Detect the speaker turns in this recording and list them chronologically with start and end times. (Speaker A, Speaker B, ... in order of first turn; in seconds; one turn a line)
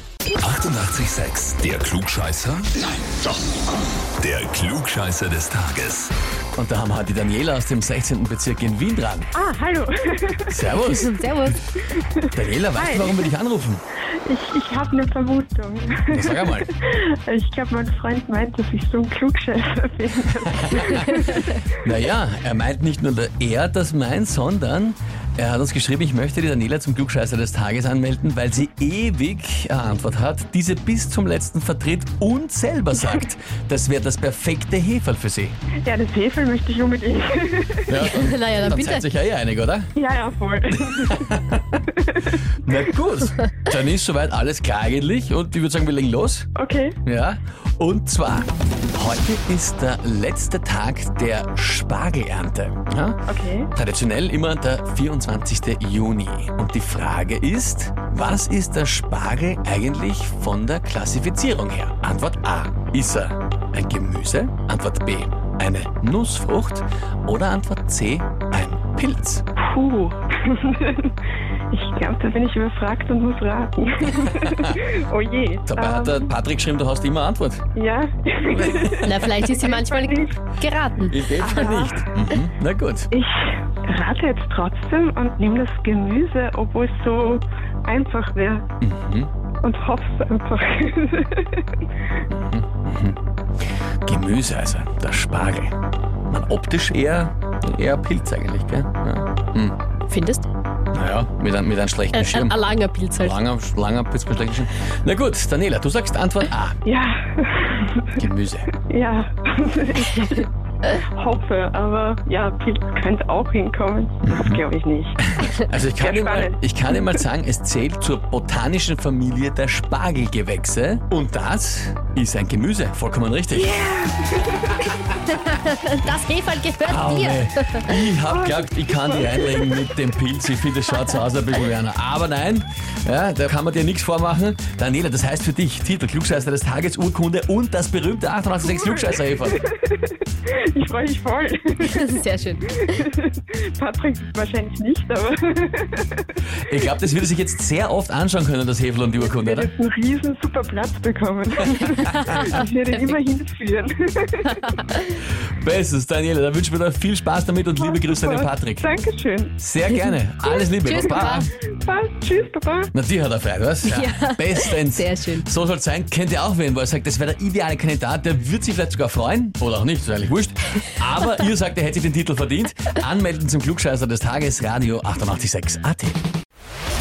Speaker A: 0.4-3.2
Speaker A: 4.2-6.1
Speaker B: 6.5-9.3
Speaker C: 9.3-10.8
Speaker B: 10.5-11.5
Speaker D: 10.9-11.6
Speaker C: 11.8-13.3
Speaker B: 12.2-13.8
Speaker C: 14.2-21.6
Speaker B: 16.1-16.7
Speaker B: 20.6-35.6
Speaker C: 35.8-38.1
Speaker B: 37.9-39.9
Speaker D: 38.0-39.0
Speaker C: 39.9-41.3
Speaker B: 40.8-41.8
Speaker C: 41.9-42.4
Speaker B: 42.6-46.5
Speaker C: 46.5-47.0
Speaker B: 47.0-53.2
Speaker C: 53.3-53.7
Speaker B: 53.7-69.4
Speaker C: 69.6-71.1
Speaker C: 71.7-76.3
Speaker B: 74.2-74.8
Speaker B: 75.7-77.6
Speaker C: 77.7-80.5
Speaker B: 78.5-79.3
Speaker D: 79.0-81.5
Speaker B: 81.1-83.1
Speaker C: 81.2-82.1
Speaker C: 83.1-88.7
Speaker B: 88.8-89.3
Speaker C: 89.6-91.7
Speaker B: 92.3-93.2
Speaker B: 94.0-95.7
Speaker B: 96.3-99.8
Speaker D: 100.1-100.4
Speaker B: 100.9-102.6
Speaker D: 102.1-103.4
Speaker B: 103.2-106.8
Speaker C: 106.8-108.2
Speaker B: 108.2-108.7
Speaker C: 108.8-115.2
Speaker B: 114.2-114.6
Speaker B: 115.2-123.8
Speaker C: 116.0-117.1
Speaker C: 123.5-125.1
Speaker D: 125.3-127.9
Speaker B: 126.8-139.6
Speaker C: 128.3-129.9
Speaker C: 138.8-142.2
Speaker D: 141.8-143.0
Speaker C: 142.8-146.3
Speaker B: 146.7-149.7
Speaker C: 149.2-154.8
Speaker D: 152.1-153.2
Speaker B: 155.6-158.9
Speaker C: 157.8-159.6
Speaker B: 159.6-161.5
Speaker D: 160.8-161.5
Speaker C: 160.9-162.9
Speaker B: 162.9-176.2
Speaker D: 163.8-165.5